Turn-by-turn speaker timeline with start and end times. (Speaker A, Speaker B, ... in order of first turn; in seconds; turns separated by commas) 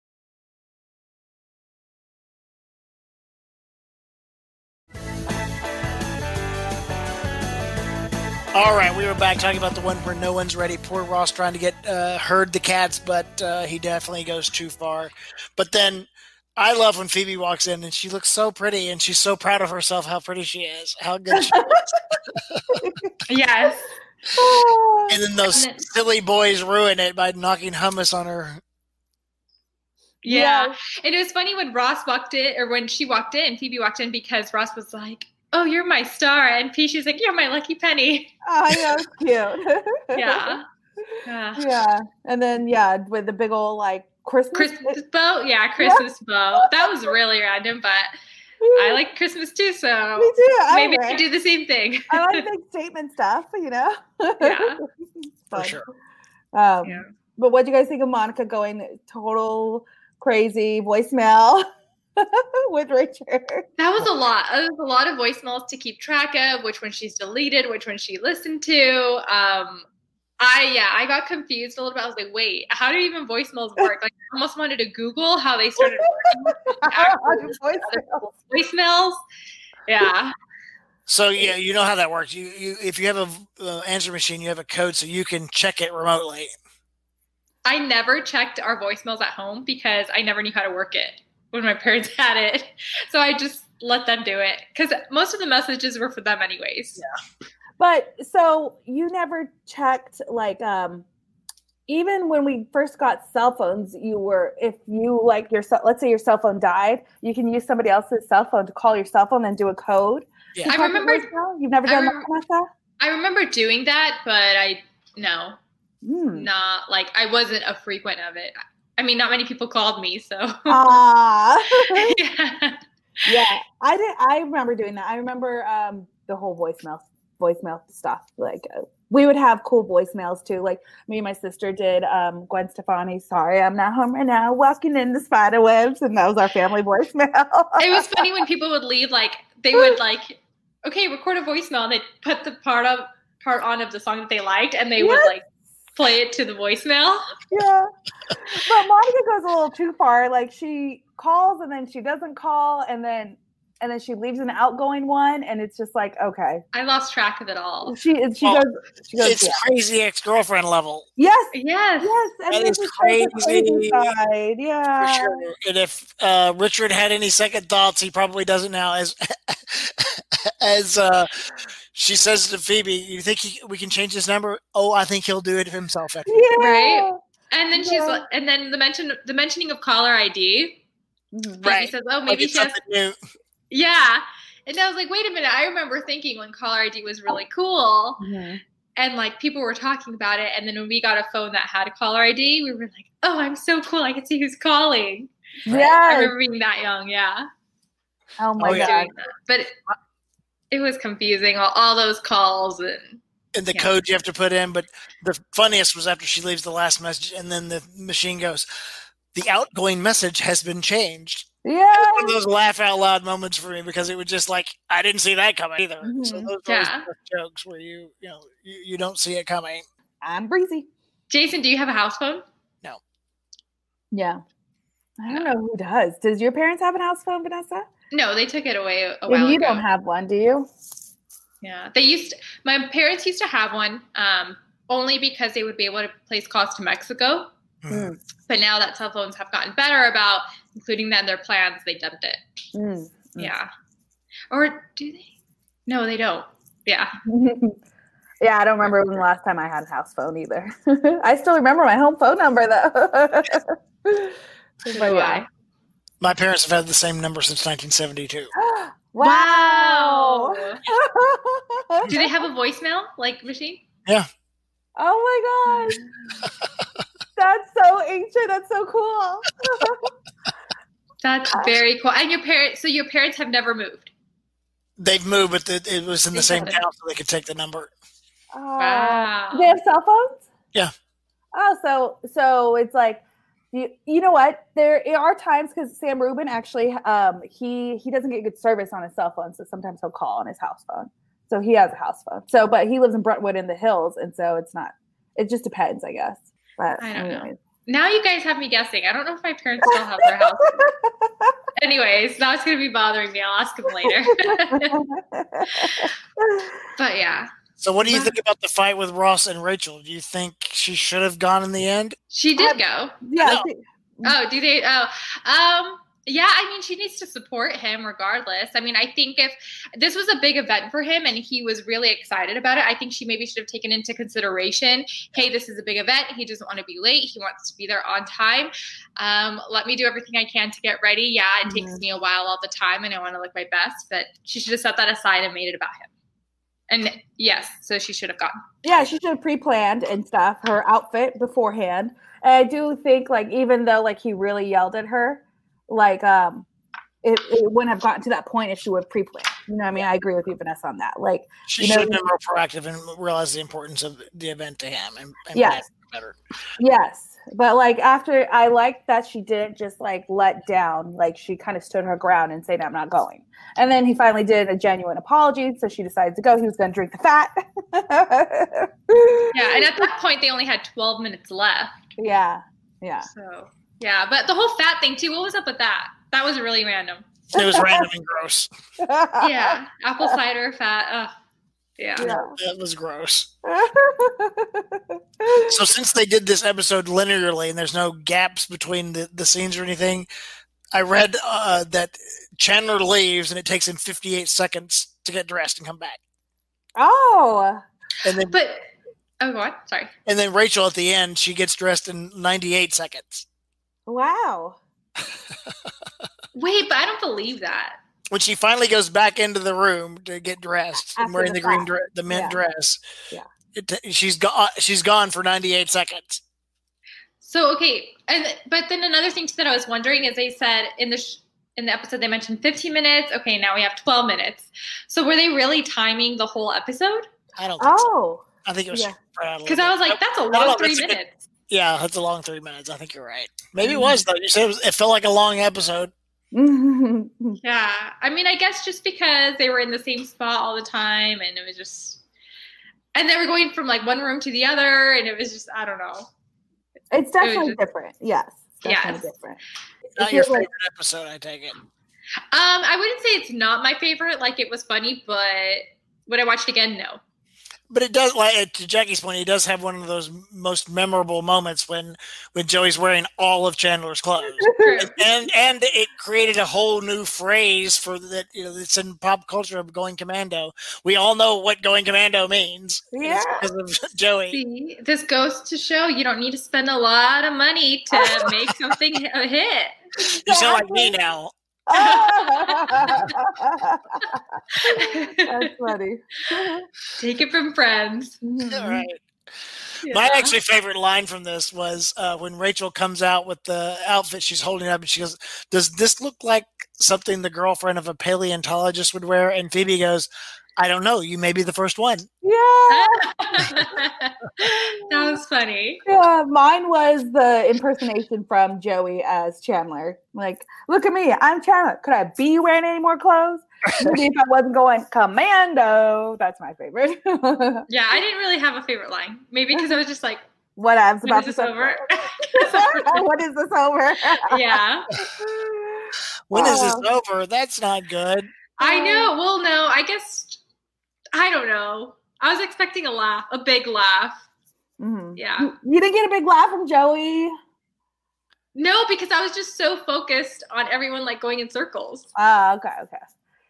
Speaker A: 8.5-22.8, Speaker B: 21.4-21.8, Speaker B: 22.8-23.1, Speaker C: 23.3-23.9, Speaker B: 24.4-25.2, Speaker A: 25.1-28.6, Speaker C: 25.5-25.8, Speaker C: 30.2-38.3, Speaker B: 30.2-30.8, Speaker B: 38.5-45.0, Speaker C: 40.1-40.6, Speaker C: 41.2-41.7, Speaker C: 44.5-48.1, Speaker B: 46.6-46.9, Speaker B: 48.6-49.0, Speaker C: 48.8-52.5, Speaker B: 50.2-51.2, Speaker B: 52.1-54.9, Speaker C: 54.4-54.8, Speaker A: 55.5-55.8, Speaker B: 55.5-55.8, Speaker B: 56.5-61.6, Speaker C: 56.8-57.1, Speaker B: 62.2-63.7, Speaker C: 63.8-69.9, Speaker C: 70.4-79.2, Speaker B: 75.8-78.4, Speaker C: 79.9-80.3, Speaker A: 81.1-86.5, Speaker C: 87.7-97.0, Speaker B: 97.8-101.1, Speaker B: 101.9-112.7, Speaker C: 110.7-111.3, Speaker C: 111.9-112.3, Speaker C: 113.0-115.6, Speaker B: 116.0-116.5, Speaker C: 116.3-121.0, Speaker B: 120.7-122.2, Speaker C: 121.8-123.3, Speaker B: 123.3-138.3, Speaker C: 137.8-145.4, Speaker B: 139.7-140.0, Speaker B: 145.0-145.3, Speaker C: 145.9-147.2, Speaker B: 147.5-156.6, Speaker C: 156.7-158.0, Speaker B: 157.9-159.6, Speaker A: 159.2-161.1, Speaker B: 161.2-165.4, Speaker C: 161.5-162.2, Speaker A: 162.5-164.1, Speaker A: 165.0-176.4, Speaker B: 176.3-177.2, Speaker C: 176.6-180.8, Speaker B: 177.8-178.2, Speaker B: 181.3-181.7, Speaker C: 181.6-182.8, Speaker A: 181.7-183.2, Speaker C: 183.7-188.2, Speaker B: 188.2-188.6, Speaker C: 189.0-195.3, Speaker B: 195.7-196.3, Speaker C: 195.9-197.5, Speaker B: 198.4-199.1, Speaker A: 198.6-199.0, Speaker C: 198.7-199.7, Speaker C: 200.7-203.2, Speaker A: 203.5-208.7, Speaker A: 209.3-219.8, Speaker B: 211.7-212.3, Speaker B: 216.0-216.5, Speaker C: 216.7-217.1, Speaker B: 220.2-220.9, Speaker C: 221.3-222.4, Speaker B: 224.1-224.4, Speaker B: 225.2-227.9, Speaker C: 228.1-229.8, Speaker B: 229.3-230.7, Speaker C: 231.6-237.5, Speaker A: 237.8-238.1, Speaker B: 237.9-238.2, Speaker C: 238.5-242.4, Speaker B: 242.7-243.5, Speaker C: 243.4-243.7, Speaker C: 244.5-245.3, Speaker C: 245.9-247.1, Speaker B: 247.2-247.8, Speaker B: 248.4-255.4, Speaker C: 254.9-255.5, Speaker A: 256.2-258.5, Speaker B: 258.6-262.4, Speaker C: 259.2-260.8, Speaker C: 262.1-263.8, Speaker B: 265.0-266.0, Speaker B: 267.4-270.1, Speaker C: 271.2-274.1, Speaker A: 275.0-277.9, Speaker C: 276.4-276.8, Speaker B: 278.5-280.5, Speaker C: 278.8-279.8, Speaker B: 281.5-297.6, Speaker C: 297.0-300.8, Speaker B: 299.9-301.5, Speaker C: 301.8-305.0, Speaker B: 304.0-306.8, Speaker C: 305.7-306.1, Speaker C: 307.0-307.5, Speaker A: 307.8-312.1, Speaker B: 308.1-308.3, Speaker C: 312.3-313.2, Speaker B: 312.6-314.4, Speaker A: 313.4-313.7, Speaker C: 314.2-336.1, Speaker B: 331.6-332.0, Speaker C: 336.9-338.6, Speaker B: 338.8-346.7, Speaker B: 347.2-352.2, Speaker A: 351.7-356.4, Speaker B: 355.6-355.8, Speaker B: 356.8-370.1, Speaker C: 369.5-372.0, Speaker B: 372.2-373.3, Speaker C: 373.2-377.3, Speaker A: 377.5-378.7, Speaker B: 377.6-378.1, Speaker B: 379.0-380.4, Speaker C: 379.4-381.3, Speaker C: 382.0-382.3, Speaker A: 382.2-383.5, Speaker B: 382.2-382.6, Speaker B: 383.6-385.8, Speaker A: 385.7-390.3, Speaker A: 390.9-396.2, Speaker B: 397.0-397.8, Speaker A: 398.2-398.6, Speaker C: 398.5-398.9, Speaker C: 399.4-400.1, Speaker A: 400.3-403.5, Speaker B: 404.1-404.8, Speaker C: 406.5-408.0, Speaker A: 408.3-413.0, Speaker B: 411.2-412.6, Speaker A: 413.8-416.4, Speaker C: 417.4-427.3, Speaker A: 427.6-428.1, Speaker B: 427.8-429.2, Speaker A: 428.6-431.2, Speaker C: 429.7-431.4, Speaker A: 431.7-436.1, Speaker B: 433.8-434.2, Speaker B: 436.5-437.6, Speaker C: 437.6-442.2, Speaker C: 443.1-446.3, Speaker B: 447.1-450.7, Speaker C: 447.4-447.8, Speaker C: 448.9-449.3, Speaker A: 450.2-451.8, Speaker C: 452.5-457.2, Speaker A: 457.9-474.6, Speaker B: 464.4-465.0, Speaker C: 464.8-465.2, Speaker B: 473.1-473.7, Speaker C: 474.5-480.0, Speaker B: 480.2-481.1, Speaker A: 480.4-481.5, Speaker B: 481.9-486.9, Speaker C: 481.9-483.3, Speaker C: 484.7-485.7, Speaker C: 487.2-488.4, Speaker B: 488.4-489.1, Speaker A: 488.7-489.2, Speaker C: 490.0-490.6, Speaker A: 490.1-502.3, Speaker B: 502.4-503.8, Speaker C: 502.9-506.0, Speaker B: 504.6-505.4, Speaker B: 506.1-517.9, Speaker A: 513.9-514.2, Speaker C: 517.9-520.4, Speaker B: 520.8-527.1, Speaker C: 521.2-523.3, Speaker C: 524.4-525.1, Speaker A: 526.5-528.5, Speaker B: 528.8-529.3, Speaker C: 528.8-530.6, Speaker C: 531.4-534.4, Speaker B: 535.0-537.5, Speaker C: 535.4-535.7, Speaker C: 538.8-542.3, Speaker B: 542.4-543.3